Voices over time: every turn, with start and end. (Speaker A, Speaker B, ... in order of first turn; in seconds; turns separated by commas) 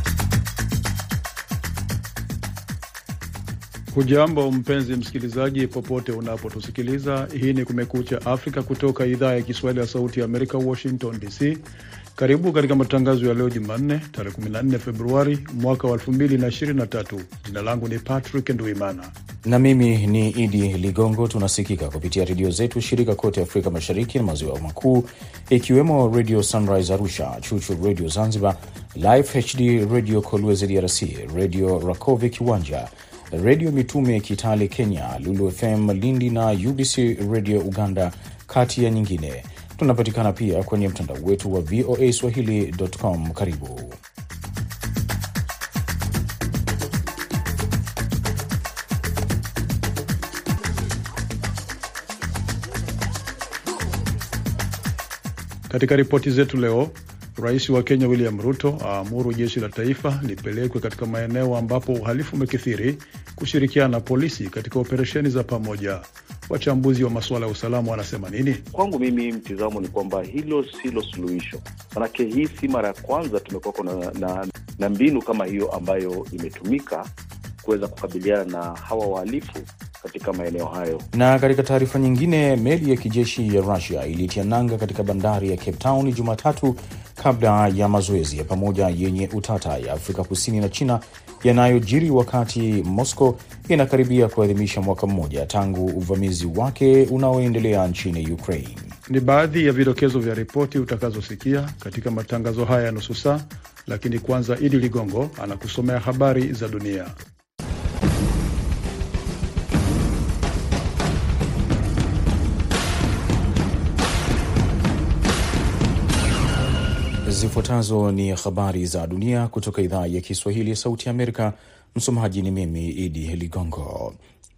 Speaker A: 3.9-11.7, Speaker A: 12.2-19.1, Speaker B: 19.4-44.0, Speaker A: 55.7-68.7, Speaker C: 68.7-77.1, Speaker C: 77.6-81.1, Speaker B: 81.1-98.9, Speaker A: 99.1-107.1, Speaker B: 117.3-124.2